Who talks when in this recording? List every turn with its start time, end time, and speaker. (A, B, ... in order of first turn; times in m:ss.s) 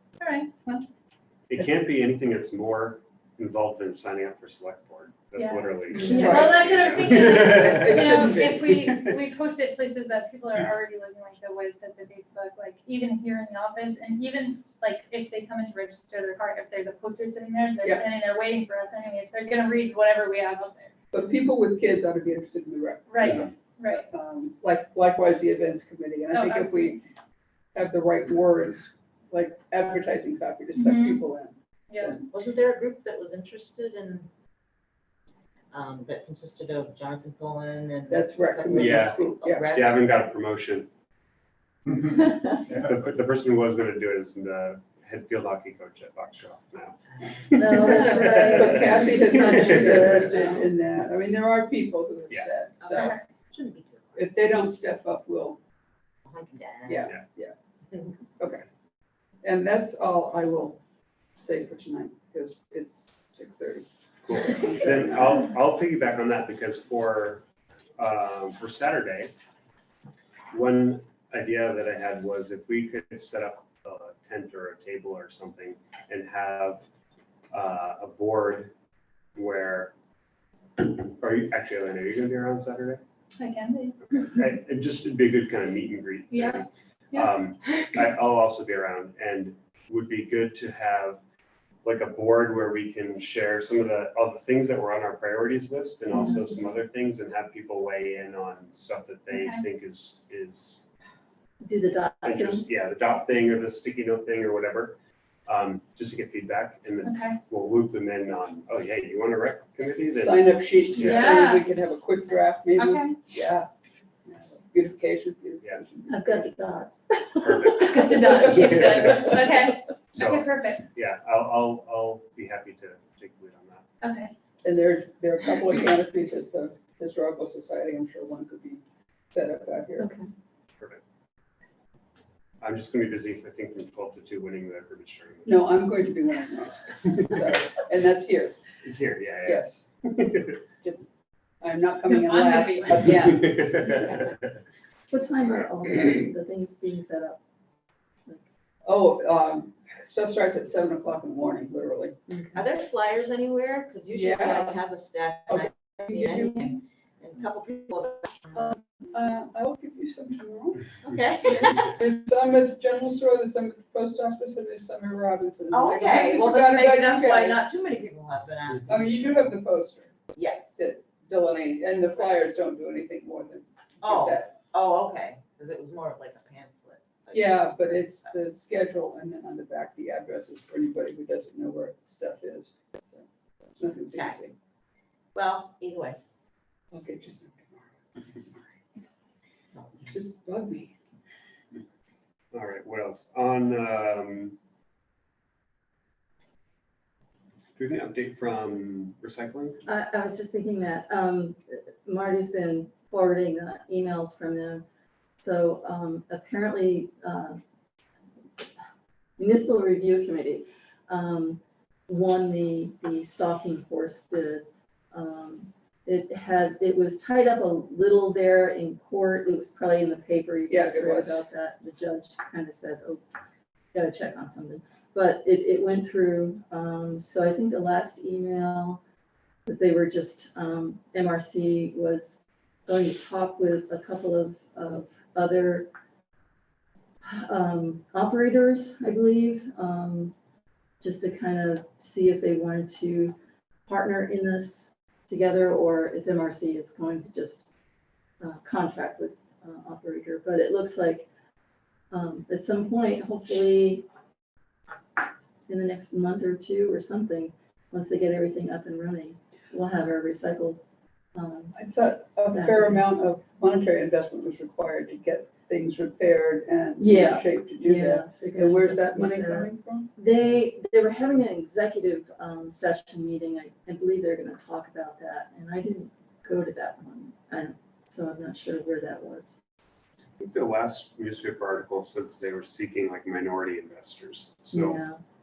0:00.2-0:00.9 A
0:01.5-0:09.2 B
0:05.4-0:20.9 A
0:05.9-0:06.6 C
0:06.0-0:06.4 D
0:06.1-0:07.0 E
0:07.6-0:08.7 C
0:21.1-0:23.5 C
0:23.1-0:24.1 A
0:23.2-0:23.5 B
0:24.0-0:27.0 C
0:26.3-0:27.0 A
0:27.7-0:32.2 C
0:30.8-0:31.2 A
0:31.9-0:32.2 A
0:32.2-0:34.3 E
0:35.7-0:40.1 E
0:38.1-0:39.7 C
0:38.7-0:40.9 B
0:42.7-0:50.2 B
0:47.6-0:50.7 D
0:47.8-0:48.6 E
0:48.5-0:53.2 C
0:52.8-0:54.2 E
0:54.2-0:55.6 C
0:56.3-0:57.1 E
0:56.9-0:57.5 C
0:58.4-0:58.6 C
0:59.4-1:00.8 C
1:01.4-1:05.4 C
1:04.2-1:07.5 B
1:08.0-1:09.3 B
1:10.5-1:16.9 B
1:17.5-1:18.7 B
1:19.4-1:19.9 B
1:20.8-1:23.0 B
1:23.4-1:24.2 A
1:24.1-1:31.2 B
1:26.3-1:27.3 A
1:31.8-1:40.8 B
1:39.3-1:39.6 A
1:41.6-1:42.7 D
1:42.2-1:51.4 B
1:47.0-1:47.4 A
1:50.1-1:53.7 C
1:51.0-1:51.7 A
1:52.8-1:53.2 A
1:54.3-1:56.5 C
1:56.1-1:59.4 D
1:57.4-1:59.5 B
1:57.8-2:00.9 A
2:00.1-2:03.8 B
2:04.0-2:04.3 A
2:04.6-2:10.1 C
2:10.0-2:10.3 D
2:10.8-2:11.0 B
2:12.6-2:15.8 B
2:15.4-2:18.6 C
2:18.8-2:20.6 B
2:19.4-2:19.8 C
2:20.8-2:21.1 C
2:21.6-2:24.0 C
2:22.0-2:23.3 A
2:23.3-2:24.3 B
2:25.1-2:27.4 D
2:28.8-2:32.5 C
2:32.5-2:38.6 E
2:34.1-2:34.8 C
2:35.5-2:36.8 C
2:38.6-2:40.8 C
2:41.0-2:41.9 E
2:41.5-2:47.7 C
2:45.7-2:49.4 E
2:48.8-2:54.6 C
2:50.3-2:50.7 E
2:54.0-2:58.3 E
2:57.3-3:04.5 C
3:04.1-3:04.4 E
3:05.4-3:06.2 E
3:06.9-3:08.6 C
3:09.7-3:10.1 E
3:10.1-3:10.9 C
3:12.5-3:14.6 B
3:17.8-3:19.8 B
3:19.9-3:24.8 D
3:25.4-3:27.6 D
3:29.4-3:43.2 D
3:40.7-3:41.5 C
3:43.9-3:49.0 D
3:49.7-3:55.9 D
3:57.2-4:00.3 D
4:01.0-4:03.4 D
4:03.9-4:07.6 D
4:08.4-4:11.3 D
4:12.1-4:14.1 D
4:15.7-4:20.8 D
4:21.4-4:21.8 D
4:21.7-4:30.1 C
4:22.5-4:23.1 D
4:27.0-4:39.6 D
4:40.4-4:45.0 B
4:44.7-4:45.2 D